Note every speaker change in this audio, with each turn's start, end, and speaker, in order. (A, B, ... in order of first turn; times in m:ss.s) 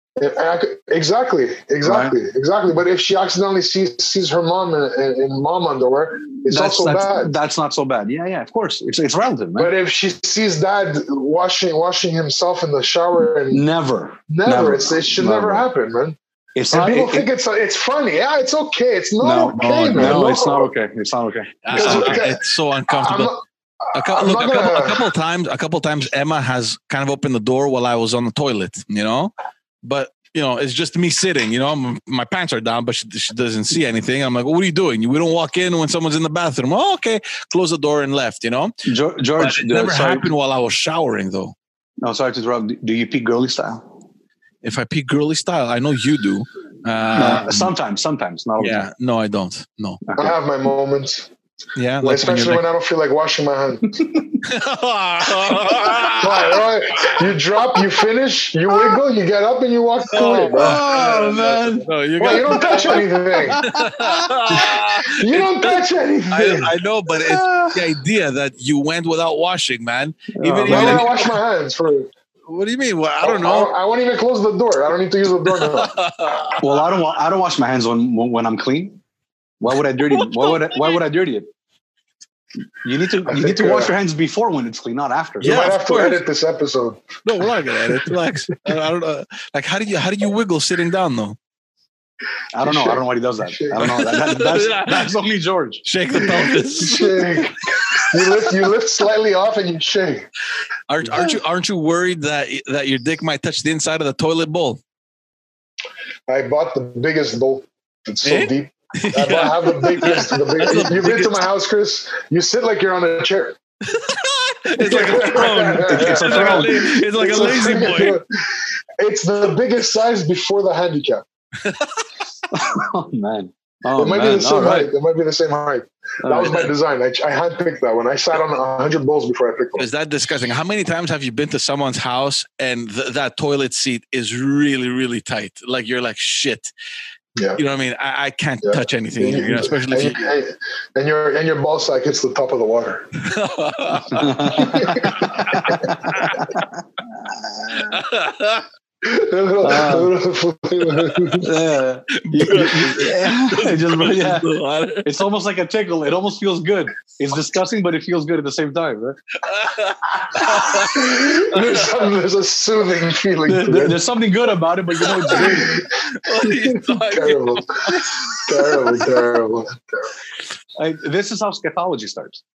0:00.2-0:07.3 A
0:01.8-0:02.1 B
0:06.4-0:09.7 B
0:09.6-0:13.6 A
0:13.5-0:15.6 B
0:14.3-0:16.2 A
0:16.5-0:17.3 B
0:16.7-0:20.7 A
0:19.2-0:22.2 B
0:19.6-0:20.2 C
0:21.6-0:23.3 C
0:21.7-0:25.0 A
0:23.9-0:29.3 C
0:29.8-0:38.8 C
0:38.8-0:40.2 B
0:39.4-0:41.6 C
0:42.0-0:43.8 B
0:44.6-0:47.7 C
0:47.2-0:48.9 B
0:48.6-0:50.0 C
0:50.1-0:50.3 B
0:50.2-0:51.3 A
0:51.8-0:52.6 C
0:52.0-0:54.0 A
0:54.4-0:57.1 C
0:56.2-1:00.8 A
1:00.1-1:03.0 C
1:00.6-1:01.9 B
1:02.2-1:03.6 A
1:02.5-1:04.6 B
1:03.6-1:11.2 C
1:04.5-1:06.7 A
1:07.1-1:07.8 B
1:10.3-1:11.1 B
1:10.6-1:12.1 A
1:12.5-1:13.7 C
1:13.2-1:15.9 A
1:15.6-1:16.7 C
1:16.6-1:19.0 B
1:19.6-1:21.5 B
1:20.1-1:21.0 C
1:22.8-1:25.6 B
1:23.2-1:23.9 A
1:25.4-1:26.2 C
1:25.4-1:27.0 A
1:27.2-1:31.4 C
1:32.5-1:35.8 B
1:32.6-1:33.9 A
1:33.8-1:35.1 C
1:35.8-1:38.1 C
1:36.8-1:40.3 A
1:40.9-1:44.8 C
1:46.3-1:53.6 A
1:48.2-1:51.4 C
1:53.9-1:58.2 C
1:54.8-1:58.2 A
1:55.1-1:56.9 B
1:59.0-2:01.2 A
2:01.6-2:02.0 C
2:02.5-2:04.9 B
2:04.0-2:09.9 A
2:06.2-2:06.7 B
2:09.8-2:16.7 C
2:17.6-2:20.3 C
2:18.6-2:23.1 A
2:23.2-2:26.7 C
2:24.1-2:26.6 B
2:24.6-2:25.7 A
2:27.7-2:28.6 C
2:29.0-2:31.5 A
2:29.6-2:30.1 B
2:31.1-2:31.4 C
2:31.4-2:34.5 B
2:32.2-2:35.1 C
2:35.0-2:39.2 B
2:39.4-2:41.8 C
2:40.7-2:44.0 A
2:43.5-2:45.8 B
2:45.1-2:49.0 C
2:45.3-2:45.9 A
2:46.4-2:50.1 A
2:50.8-2:52.4 B